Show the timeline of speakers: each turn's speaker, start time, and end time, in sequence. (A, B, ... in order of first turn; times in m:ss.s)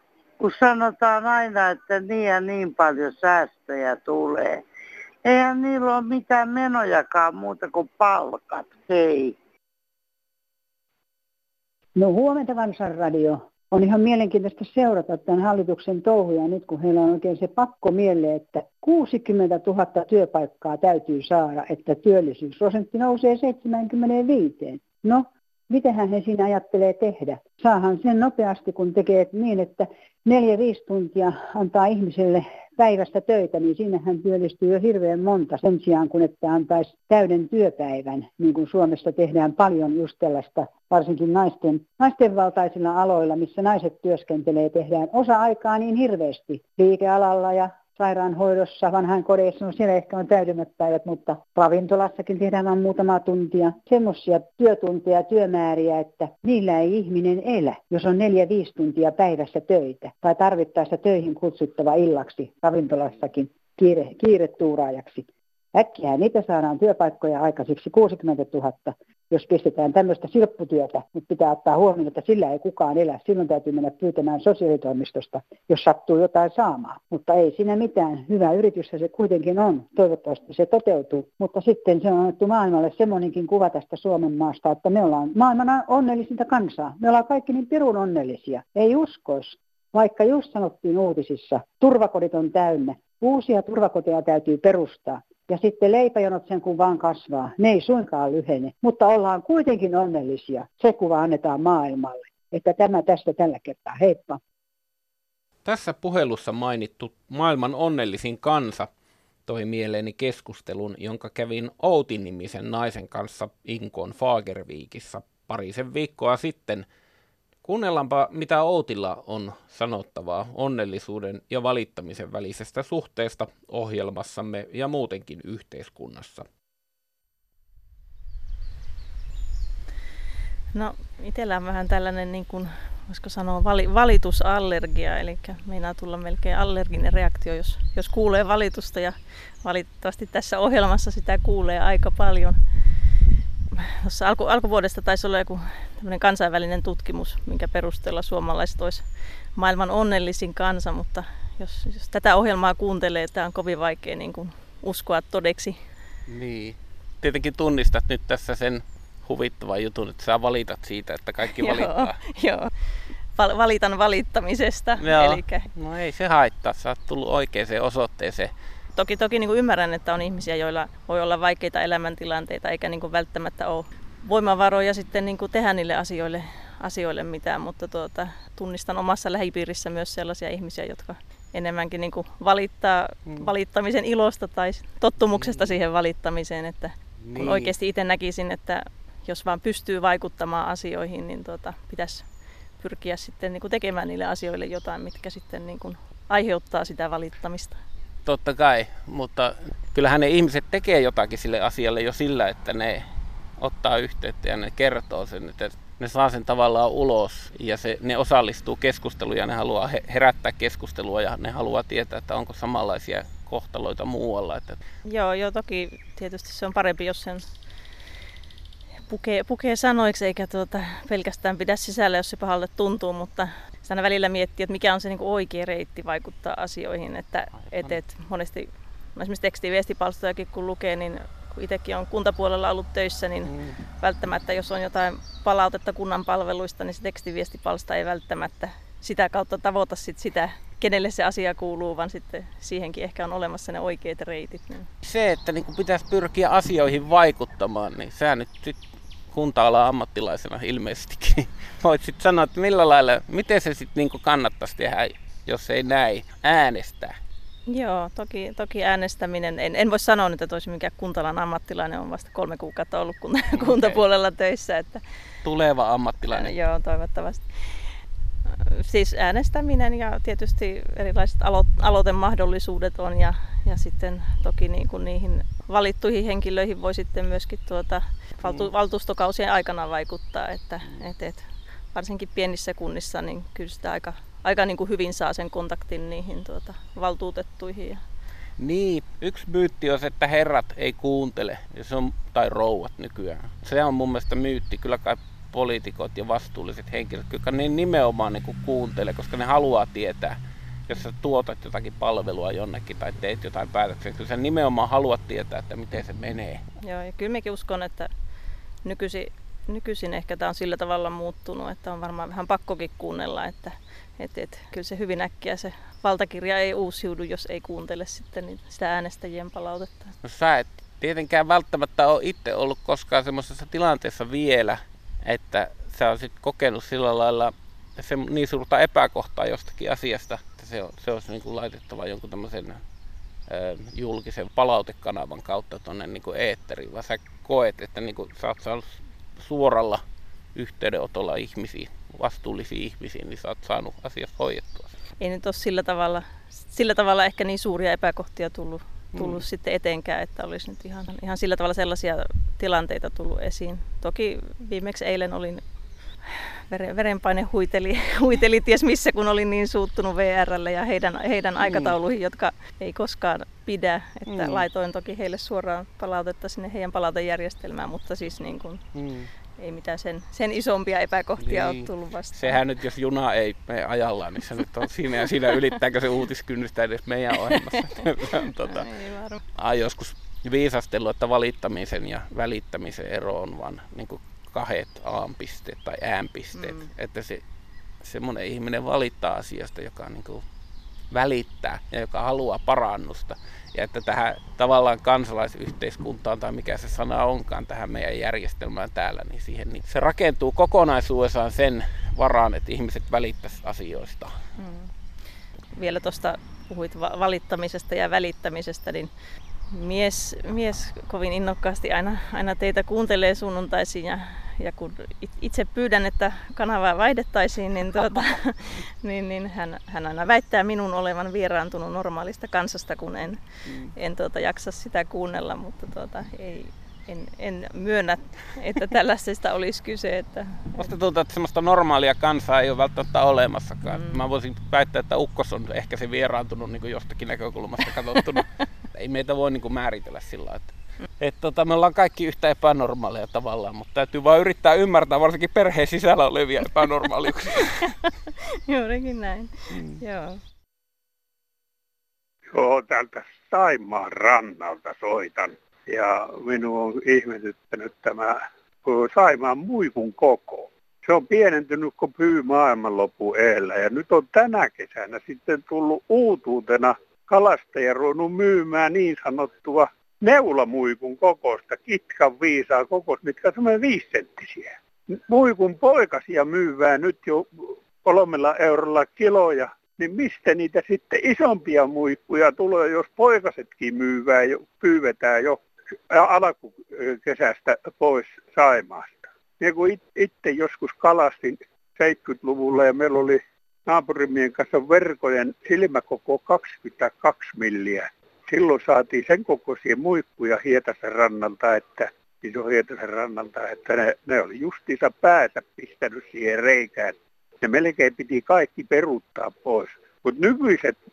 0:00.4-0:04.6 A
0:05.2-0:09.3 A
0:12.0-1:44.4 B
1:45.6-1:48.9 C
1:49.4-1:56.8 C
1:57.6-2:06.4 C
2:10.7-2:22.6 D
2:23.7-2:35.8 D
2:36.3-2:42.2 C
2:41.4-2:42.7 D
2:43.3-2:45.7 D
2:45.0-2:48.5 C
2:49.0-3:12.2 D
3:05.2-3:05.7 C
3:07.2-3:07.7 C
3:12.8-3:17.8 D
3:18.2-3:23.0 C
3:23.6-3:34.8 C
3:35.1-3:37.5 D
3:39.1-4:04.9 D
3:47.6-3:48.0 C
3:53.5-3:53.8 C
4:05.0-4:17.2 C
4:17.7-4:25.0 D
4:23.5-4:24.0 C
4:25.4-4:26.5 C
4:26.3-4:27.9 D
4:28.5-4:48.0 D
4:38.4-4:38.7 C
4:48.6-5:06.6 C
5:06.8-5:08.1 D
5:08.8-5:20.1 D
5:20.2-5:32.8 C
5:33.5-5:40.0 C
5:40.6-5:44.9 C
5:45.2-5:55.6 D
5:49.1-5:49.4 C
5:56.7-6:08.9 D
6:01.6-6:02.0 C
6:04.3-6:04.6 C
6:08.9-6:09.3 C
6:09.6-6:12.6 D
6:11.4-6:18.9 C
6:18.6-6:19.4 D
6:19.6-6:27.4 C
6:26.5-6:26.9 D
6:28.0-6:30.4 C
6:31.1-6:44.3 C
6:44.6-6:44.9 D
6:45.8-6:49.1 D
6:49.7-7:10.9 D
7:10.7-7:27.8 C
7:13.9-7:14.2 D
7:28.7-7:30.4 D
7:32.5-8:31.0 E